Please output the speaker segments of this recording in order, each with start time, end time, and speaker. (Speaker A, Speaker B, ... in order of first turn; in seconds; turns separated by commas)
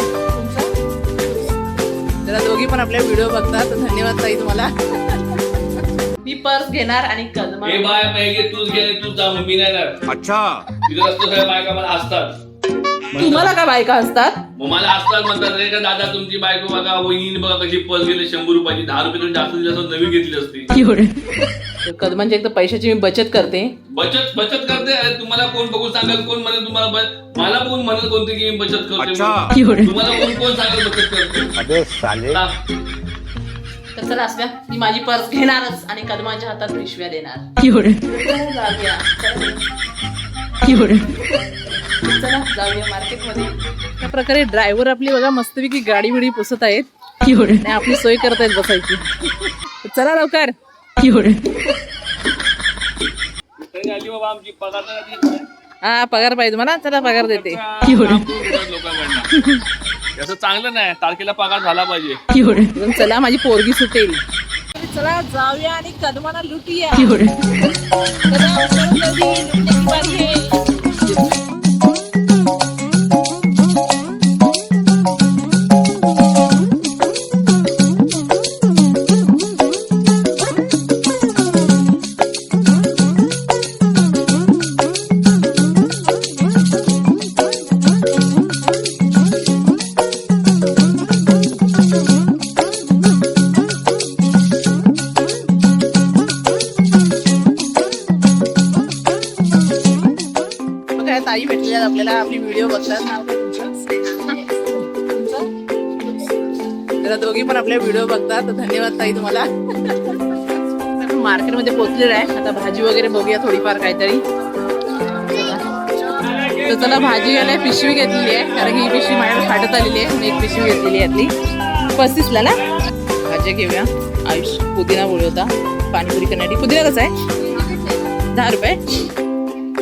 Speaker A: 0.3-0.7, Speaker A: 2.2-8.0, Speaker B: 7.6-10.0, Speaker C: 10.1-10.7, Speaker B: 10.8-12.4, Speaker B: 13.1-13.5, Speaker A: 13.2-14.4, Speaker B: 14.6-20.8, Speaker A: 21.8-23.7, Speaker B: 23.9-31.5, Speaker C: 29.0-29.6, Speaker C: 31.6-32.4, Speaker B: 32.3-32.6, Speaker A: 34.0-39.6, Speaker A: 40.7-41.0, Speaker A: 42.0-50.5, Speaker B: 53.6-55.5, Speaker A: 55.8-57.6, Speaker B: 57.0-59.3, Speaker A: 59.4-59.6, Speaker B: 60.2-62.2, Speaker A: 62.7-64.2, Speaker A: 64.8-67.7, Speaker A: 68.2-71.2, Speaker A: 101.0-105.5, Speaker A: 107.0-114.2, Speaker A: 115.1-115.6, Speaker A: 116.6-121.3, Speaker A: 121.9-122.6, Speaker A: 123.2-127.1, Speaker A: 128.3-128.8